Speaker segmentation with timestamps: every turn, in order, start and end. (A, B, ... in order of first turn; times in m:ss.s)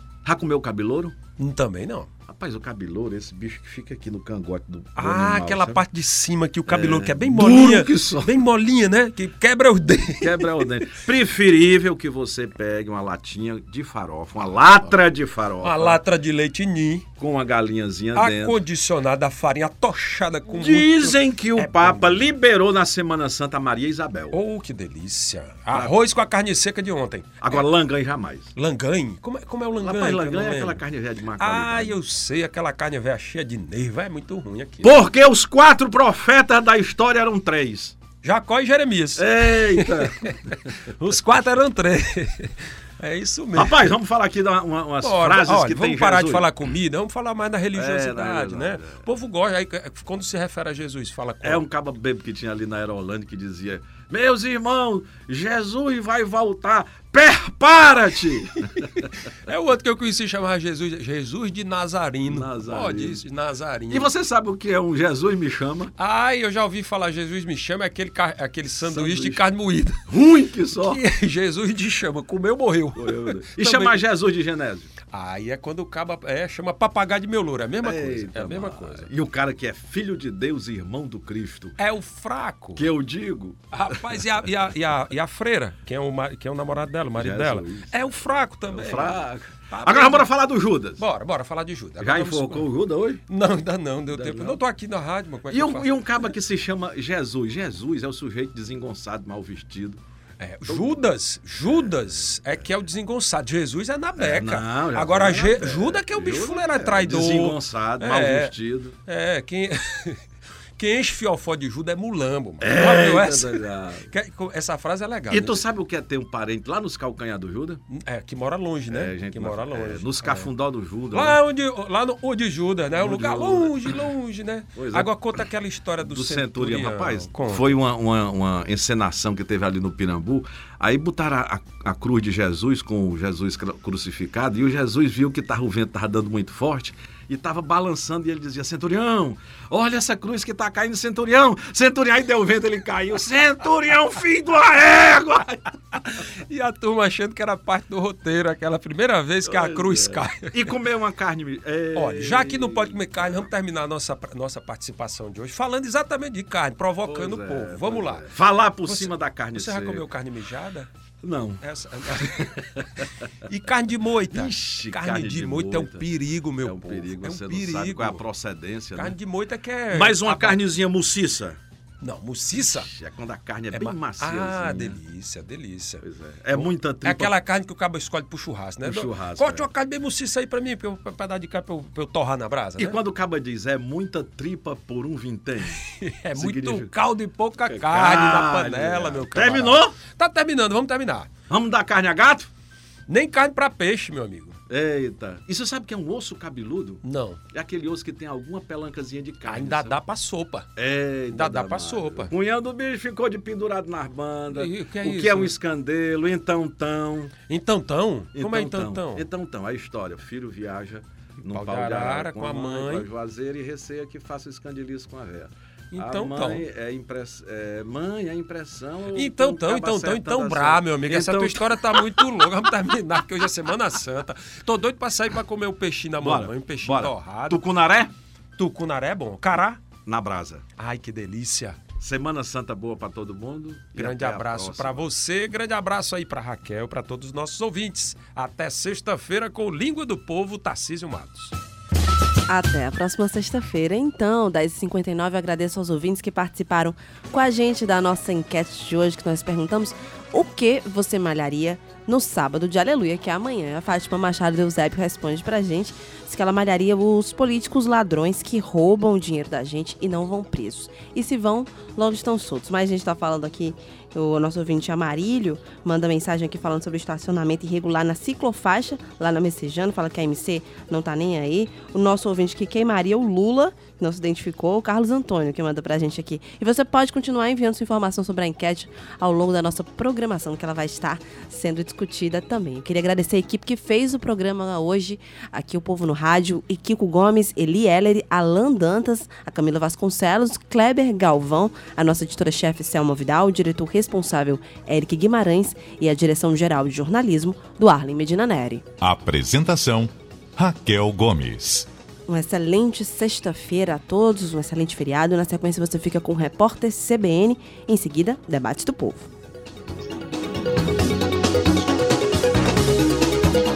0:00.2-0:01.2 A
0:01.4-0:02.1 B
0:02.3-0:05.8 A
0:05.0-0:10.9 B
0:06.7-0:08.3 A
0:10.2-0:16.0 A
0:15.6-0:17.0 B
0:17.2-0:18.6 A
0:18.1-0:22.3 B
0:20.5-0:24.4 A
0:24.3-0:27.6 B
0:25.7-0:25.9 A
0:27.4-0:28.5 A
0:28.5-0:30.8 B
0:29.8-0:32.0 A
0:31.4-0:34.9 B
0:34.8-0:38.0 A
0:38.2-0:43.9 B
0:39.2-0:40.5 A
0:43.5-0:46.5 A
0:45.0-0:51.6 B
0:47.7-0:49.0 A
0:51.4-0:59.1 A
0:59.0-1:04.1 B
1:02.3-1:03.2 A
1:03.9-1:05.9 A
1:06.0-1:10.0 B
1:08.8-1:09.4 A
1:10.1-1:11.0 A
1:10.8-1:14.0 B
1:13.0-1:14.9 A
1:15.1-1:19.1 B
1:17.8-1:21.8 A
1:21.8-1:22.8 B
1:22.8-1:24.2 A
1:23.7-1:30.3 B
1:27.2-1:27.9 A
1:28.7-1:31.0 A
1:31.0-1:32.7 B
1:32.0-1:33.2 A
1:33.3-1:36.0 B
1:34.1-1:34.6 A
1:35.5-1:40.0 A
1:40.4-1:48.5 B
1:40.6-1:40.9 A
1:44.2-1:49.0 A
1:49.0-1:50.2 B
1:50.8-1:55.6 B
1:52.6-1:54.1 A
1:55.3-1:57.8 A
1:57.9-2:00.5 B
1:58.9-2:01.4 A
2:01.1-2:07.8 B
2:03.0-2:04.0 A
2:04.7-2:05.2 A
2:06.0-2:25.6 A
2:26.0-2:30.7 B
2:29.4-2:33.5 A
2:31.9-2:38.3 B
2:37.0-2:40.0 A
2:38.8-2:40.9 B
2:41.2-2:43.0 A
2:41.6-2:48.2 B
2:44.3-2:46.0 A
2:46.6-2:49.1 A
2:49.0-2:50.6 B
2:49.9-2:51.6 A
2:52.0-2:52.9 B
2:52.6-2:55.0 A
2:53.7-3:03.0 B
2:56.0-2:57.3 A
2:58.8-2:59.7 A
3:02.8-3:05.8 A
3:05.8-3:11.3 B
3:06.3-3:06.9 A
3:07.7-3:09.9 A
3:11.5-3:12.5 A
3:13.1-3:14.6 B
3:14.7-3:20.0 A
3:17.0-3:17.4 B
3:19.5-3:20.7 B
3:20.8-3:27.3 A
3:21.3-3:22.3 B
3:24.5-3:25.5 B
3:27.5-3:29.2 B
3:28.3-3:42.3 A
3:31.5-3:33.0 B
3:35.9-3:36.6 B
3:39.1-3:47.6 B
3:46.2-3:48.1 A
3:48.6-3:49.8 B
3:50.0-3:50.6 A
3:50.8-3:51.8 B
3:52.0-3:55.0 A
3:53.9-4:01.6 B
4:02.5-4:58.8 C
4:59.0-5:01.9 D
5:02.3-5:09.3 C